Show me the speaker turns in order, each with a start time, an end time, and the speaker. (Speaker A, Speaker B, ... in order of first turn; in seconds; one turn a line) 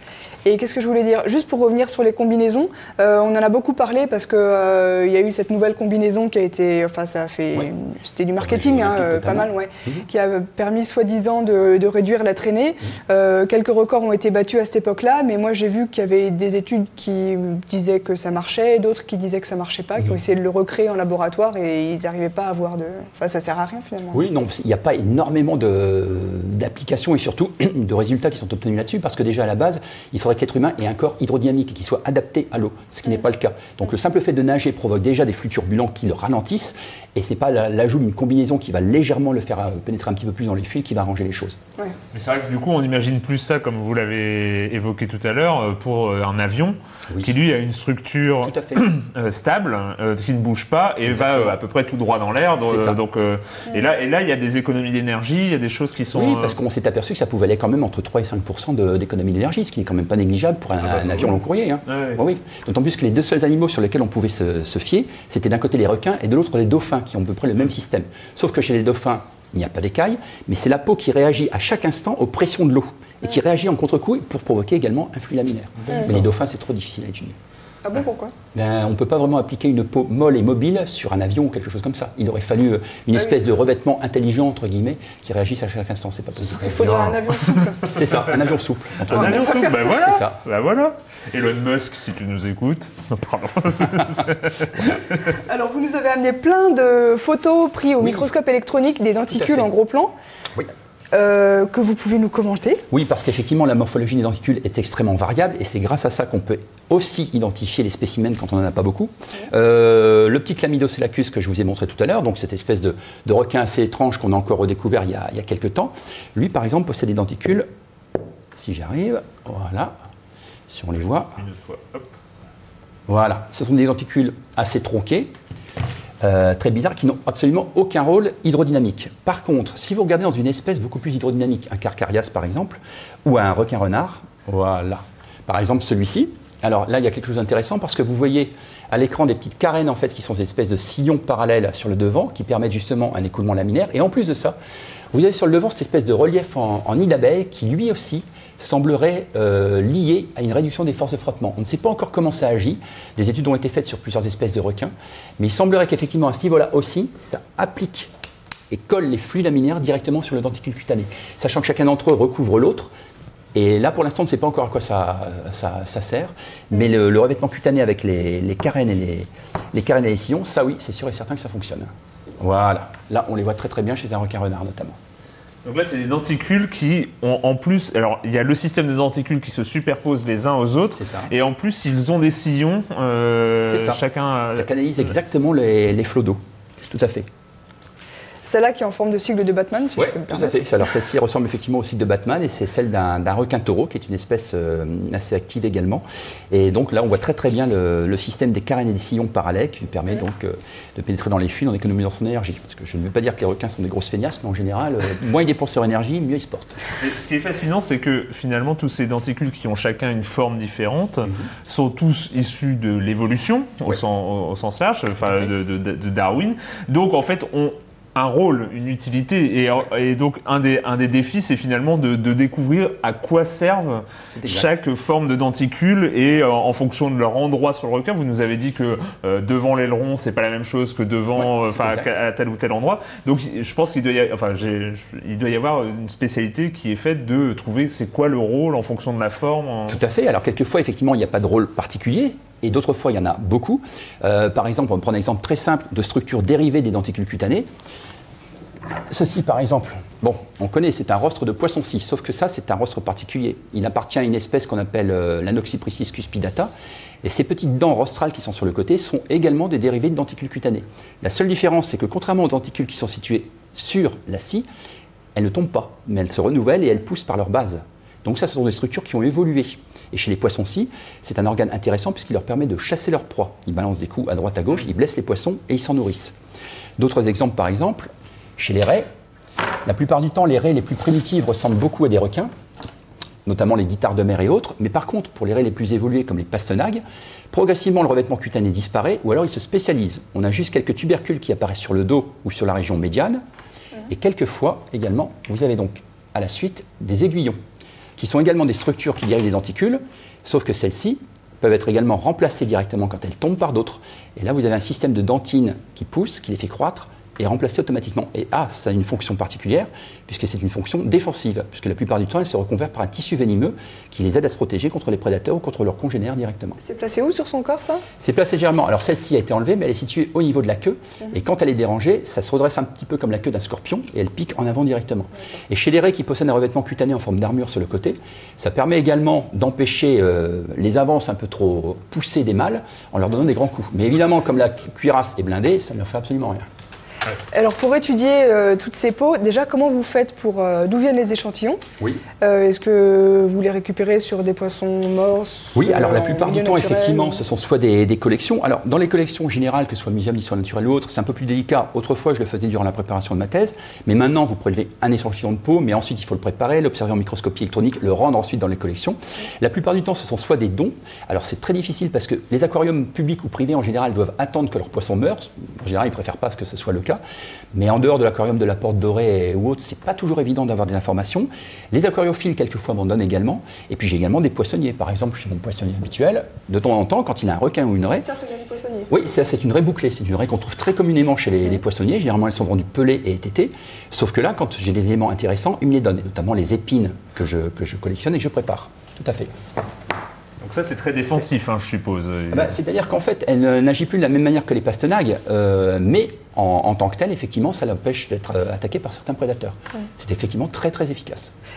Speaker A: 0.4-24.2
Speaker B: 8.4-10.0
Speaker B: 24.1-41.6
Speaker C: 42.1-56.6
Speaker B: 47.1-47.3
Speaker B: 48.4-48.9
Speaker B: 51.0-51.5
Speaker B: 52.6-53.0
Speaker B: 56.1-77.3
Speaker C: 60.9-61.3
Speaker C: 61.9-62.2
Speaker A: 75.9-76.1
Speaker A: 77.8-78.3
Speaker B: 78.5-87.2
Speaker C: 86.5-88.4
Speaker A: 86.6-87.9
Speaker B: 87.8-90.4
Speaker C: 89.0-95.3
Speaker A: 89.1-90.2
Speaker A: 95.3-100.1
Speaker B: 98.0-98.2
Speaker B: 99.3-99.7
Speaker A: 101.1-102.8
Speaker B: 102.9-117.7
Speaker B: 118.5-120.0
Speaker B: 120.7-121.4
Speaker C: 121.4-122.1
Speaker B: 123.1-125.3
Speaker B: 126.2-144.6
Speaker B: 145.1-158.1
Speaker B: 158.7-162.9
Speaker B: 163.5-175.0
Speaker C: 175.6-184.7
Speaker B: 180.9-181.3
Speaker B: 183.6-187.3
Speaker A: 188.4-190.6
Speaker B: 189.9-206.8
Speaker C: 207.0-240.0
Speaker B: 224.3-224.7
Speaker B: 231.3-232.1
Speaker B: 239.9-247.7
Speaker B: 249.1-256.7
Speaker B: 257.2-264.6
Speaker B: 265.3-276.3
Speaker B: 277.0-279.1
Speaker B: 279.9-282.5
Speaker B: 283.4-293.4
Speaker B: 294.1-297.6
Speaker B: 298.2-316.8
Speaker A: 316.8-318.0
Speaker B: 318.2-336.7
Speaker A: 337.5-341.8
Speaker A: 342.4-347.4
Speaker B: 345.7-367.2
Speaker B: 367.7-378.3
Speaker A: 378.1-379.1
Speaker B: 379.1-389.5
Speaker C: 390.6-392.7
Speaker B: 392.5-401.5